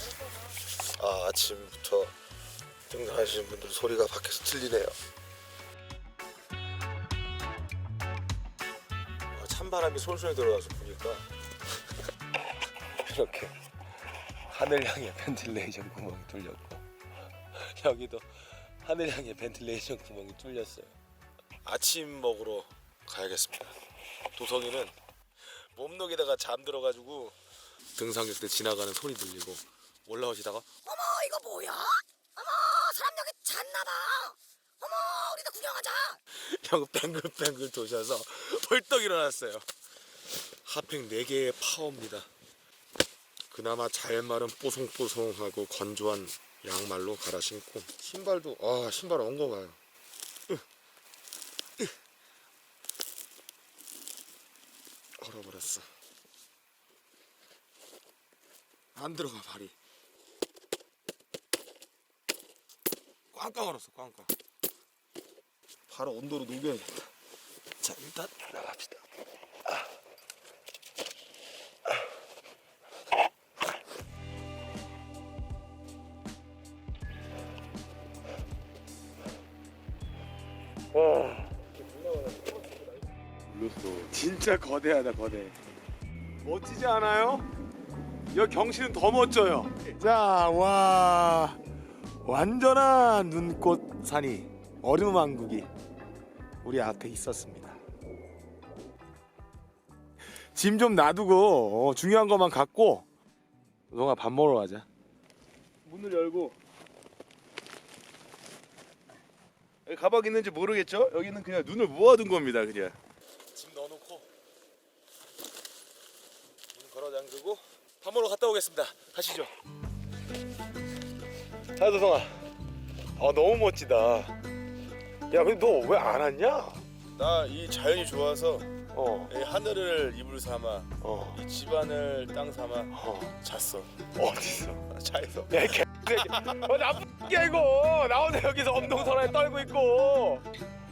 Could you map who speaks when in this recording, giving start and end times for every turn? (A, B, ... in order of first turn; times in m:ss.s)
0:00.8-0:02.1 A
0:02.9-0:05.0 A
0:09.3-0:11.2 A
0:13.0-0:13.5 A
0:14.5-0:16.8 A
0:17.5-0:18.3 A
0:18.8-0:21.0 A
0:21.6-0:23.8 A
0:24.3-0:24.9 A
0:25.7-0:27.4 A
0:28.0-0:30.7 A
0:30.8-0:36.2 B
0:36.4-0:39.6 A
0:40.6-0:42.3 A
0:43.5-0:49.8 A
0:55.2-0:55.9 A
0:59.0-0:59.7 A
1:03.3-1:04.3 A
1:05.9-1:07.0 A
1:07.8-1:09.0 A
1:20.9-1:22.8 A
1:23.5-1:24.1 C
1:24.1-1:25.5 A
1:26.4-1:27.4 A
1:28.3-1:31.6 A
1:32.2-1:35.7 A
1:36.6-1:37.8 A
1:40.5-1:43.0 A
1:43.9-1:44.8 A
1:45.8-1:46.6 C
1:49.8-1:53.0 C
1:53.5-1:54.3 A
1:56.7-1:59.5 A
2:01.8-2:02.4 A
2:03.2-2:04.3 A
2:05.3-2:06.8 A
2:07.2-2:08.7 C
2:08.9-2:09.3 A
2:09.3-2:13.9 C
2:11.0-2:11.4 A
2:12.9-2:13.4 A
2:14.2-2:14.8 A
2:14.9-2:16.5 C
2:15.5-2:20.4 A